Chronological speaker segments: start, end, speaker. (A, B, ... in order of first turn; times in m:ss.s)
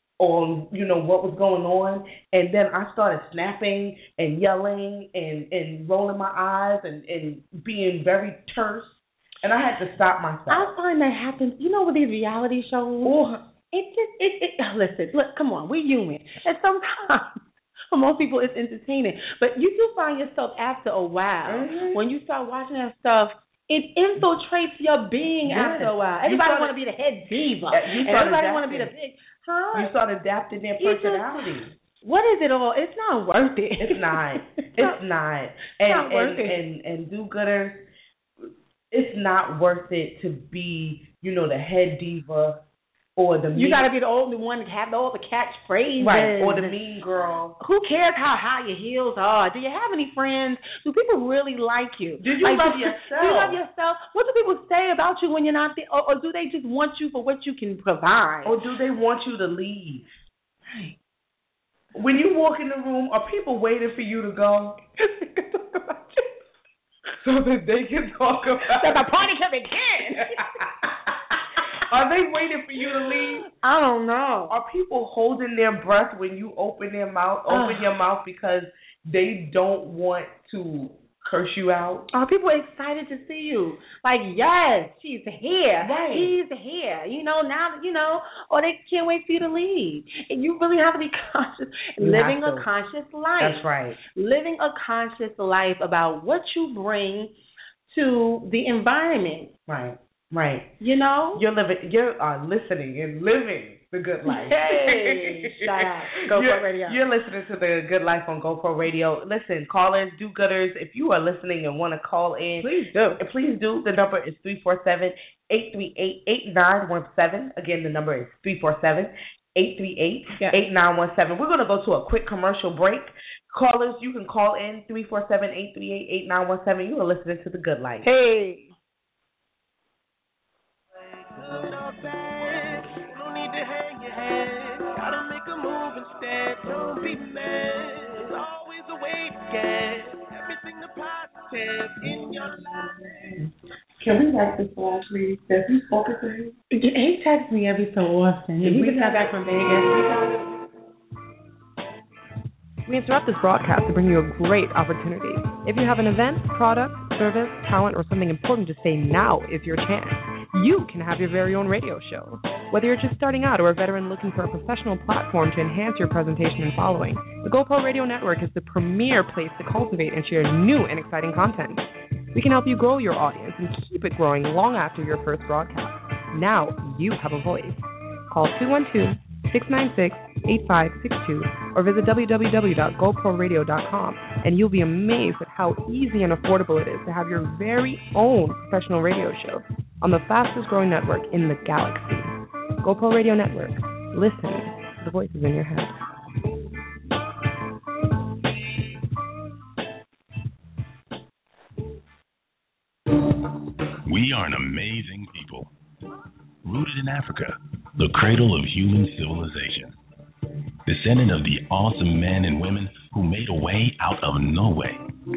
0:00.2-0:10.7 A
0:10.5-0:13.2 B
0:13.0-0:13.4 A
0:13.7-0:29.9 B
0:21.5-0:22.0 A
0:25.5-0:26.7 A
0:27.7-0:28.9 A
0:29.7-0:31.8 A
0:30.8-0:31.5 B
0:32.0-0:35.0 B
0:33.8-0:37.9 A
0:35.8-0:36.6 B
0:38.9-0:42.6 A
0:43.2-0:43.9 A
0:43.5-0:46.8 B
0:46.0-0:47.6 A
0:47.6-0:58.6 B
0:52.2-0:53.6 A
0:58.4-1:00.1 A
1:00.7-1:01.0 B
1:02.0-1:04.8 A
1:05.0-1:06.4 B
1:07.2-1:09.1 A
1:08.7-1:10.5 B
1:10.2-1:11.1 A
1:11.6-1:11.9 B
1:11.8-1:13.5 A
1:13.1-1:14.6 B
1:14.5-1:22.1 A
1:17.5-1:17.9 B
1:22.1-1:37.3 B
1:25.8-1:26.3 A
1:32.0-1:32.7 A
1:33.4-1:34.0 A
1:37.9-1:39.5 B
1:39.7-1:40.7 A
1:40.8-1:41.4 B
1:41.4-2:08.1 A
1:44.3-1:47.0 B
1:52.6-1:53.2 B
2:08.0-2:08.7 B
2:11.0-2:23.4 C
2:22.1-2:23.5 A
2:24.0-2:26.6 A
2:26.7-2:30.1 B
2:28.6-2:30.3 A
2:32.9-3:16.0 D
3:24.1-3:25.7 E
3:26.6-3:30.0 E
3:30.9-3:35.0 E